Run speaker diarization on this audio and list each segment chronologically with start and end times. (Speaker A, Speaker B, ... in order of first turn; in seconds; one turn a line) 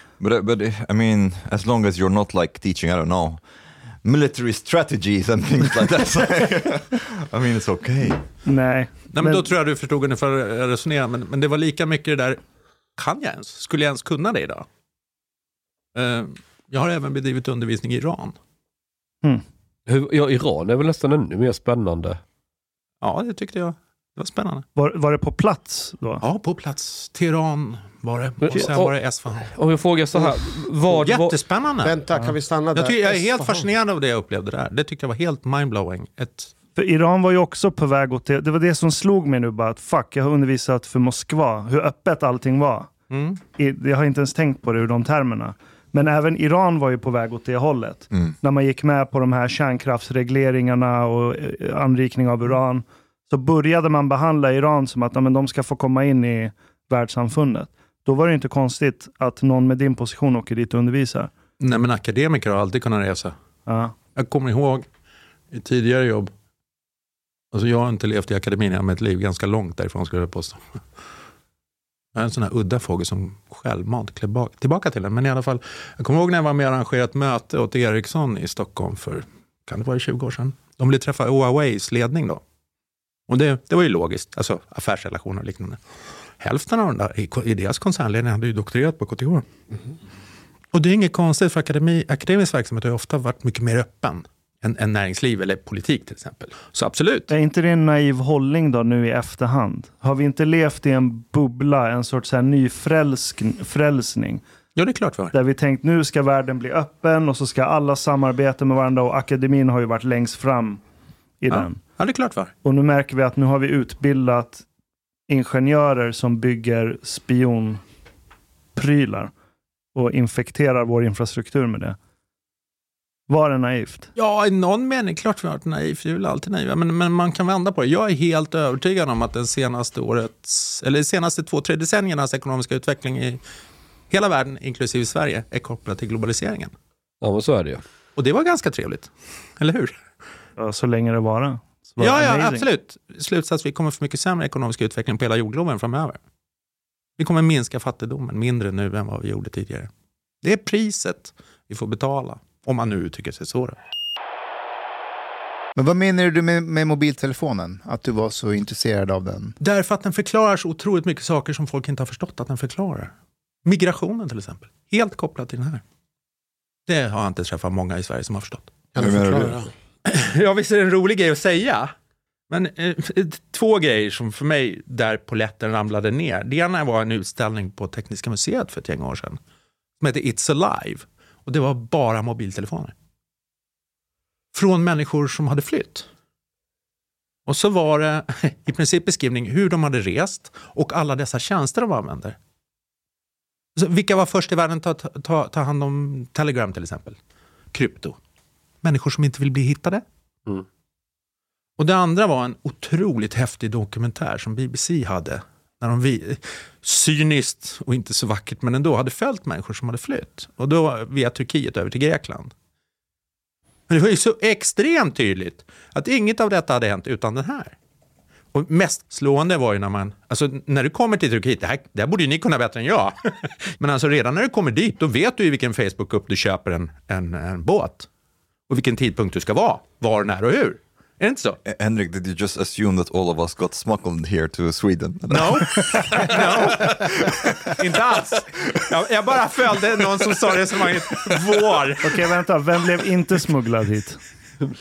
Speaker A: 0.2-3.4
Speaker A: 4.0-8.2
Speaker B: 8.4-9.5
Speaker C: 9.1-12.4
Speaker C: 13.0-14.7
Speaker C: 15.9-18.4
Speaker D: 19.9-22.2
Speaker C: 23.0-24.6
Speaker B: 24.8-26.2
Speaker C: 26.2-29.5
Speaker D: 28.4-31.4
Speaker C: 30.9-31.9
Speaker E: 31.8-33.6
Speaker C: 32.7-36.5
Speaker B: 36.8-42.9
Speaker C: 43.1-43.4
Speaker B: 43.6-61.3
Speaker C: 61.6-63.3
Speaker B: 63.7-63.9
Speaker C: 64.1-64.8
Speaker C: 65.5-66.3
Speaker C: 67.5-70.6
Speaker C: 72.1-82.4
Speaker C: 83.3-85.8
Speaker C: 86.4-89.4
Speaker C: 90.7-97.3
Speaker B: 97.3-104.4
Speaker C: 104.8-105.3
Speaker B: 105.3-110.8
Speaker B: 111.4-111.8
Speaker C: 111.5-112.5
Speaker B: 112.6-114.6
Speaker B: 115.3-117.8
Speaker B: 118.8-119.3
Speaker B: 119.9-122.0
Speaker B: 123.3-124.1
Speaker C: 124.2-133.4
Speaker C: 134.1-136.7
Speaker D: 137.2-137.8
Speaker C: 138.2-139.9
Speaker B: 140.6-142.7
Speaker C: 142.0-146.2
Speaker C: 147.2-149.9
Speaker C: 150.4-153.8
Speaker F: 155.8-159.5
Speaker C: 159.6-163.1
Speaker C: 163.6-165.8
Speaker C: 166.9-168.7
Speaker E: 168.9-169.7
Speaker A: 169.0-169.6
Speaker C: 170.0-171.9
Speaker C: 172.5-179.4
Speaker C: 180.0-182.9
Speaker C: 184.5-186.1
Speaker C: 187.5-192.3
Speaker C: 193.8-197.2
Speaker C: 197.7-198.2
Speaker C: 198.8-200.0
Speaker C: 201.8-212.5
Speaker C: 213.9-217.7
Speaker C: 218.5-228.1
Speaker C: 228.7-231.6
Speaker A: 231.6-237.4
Speaker C: 235.3-242.2
Speaker B: 242.0-244.2